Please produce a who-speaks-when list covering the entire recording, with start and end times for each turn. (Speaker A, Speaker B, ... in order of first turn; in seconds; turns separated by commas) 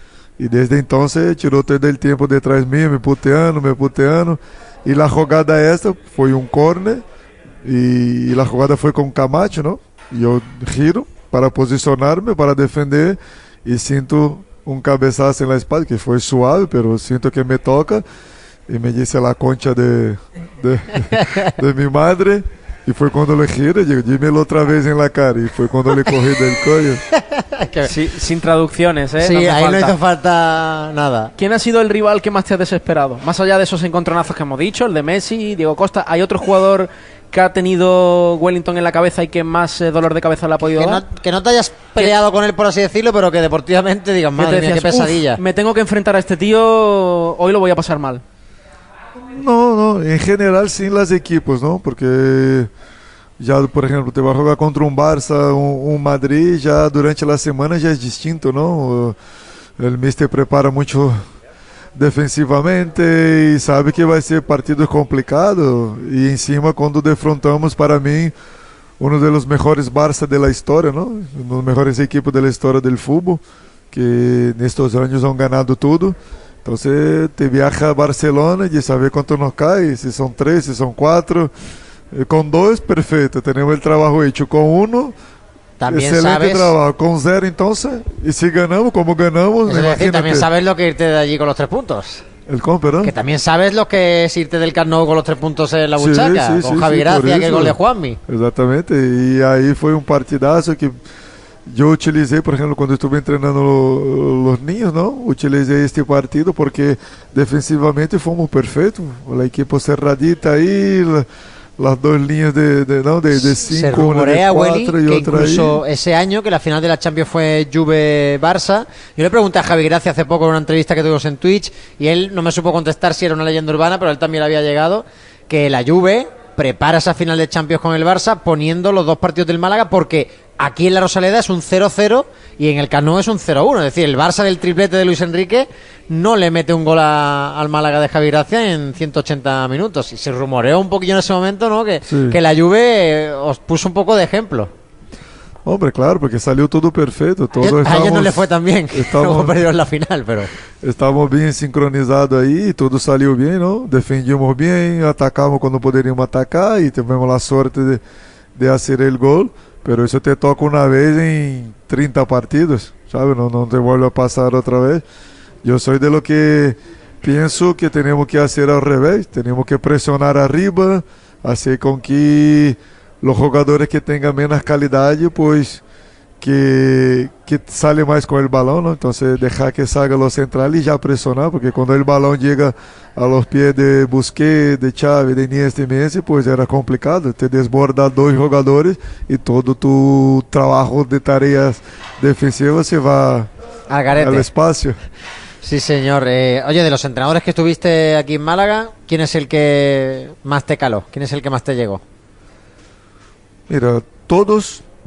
Speaker A: 0.4-7.0, Speaker A: 7.6-18.0, Speaker A: 18.7-27.0, Speaker B: 21.1-21.6, Speaker B: 27.1-27.9, Speaker C: 27.8-29.9, Speaker B: 29.2-31.3, Speaker C: 31.4-41.0, Speaker B: 40.6-45.4, Speaker C: 44.4-48.2, Speaker A: 49.3-52.7, Speaker A: 53.4-59.1, Speaker A: 59.8-61.2, Speaker A: 61.9-68.3, Speaker A: 69.0-81.5, Speaker A: 82.1-85.1, Speaker B: 85.8-86.7, Speaker A: 85.9-90.5, Speaker B: 89.7-92.2, Speaker A: 92.5-93.1, Speaker B: 93.0-98.2, Speaker A: 96.0-100.9, Speaker A: 101.7-111.2, Speaker A: 111.8-115.8, Speaker B: 113.3-144.7, Speaker A: 142.1-142.4, Speaker A: 145.6-149.6, Speaker B: 147.6-150.5, Speaker A: 150.8-158.0, Speaker A: 158.6-165.0, Speaker A: 165.6-175.8, Speaker A: 176.4-193.5, Speaker B: 193.9-194.5, Speaker A: 194.1-195.0, Speaker B: 195.6-202.0, Speaker A: 203.7-204.8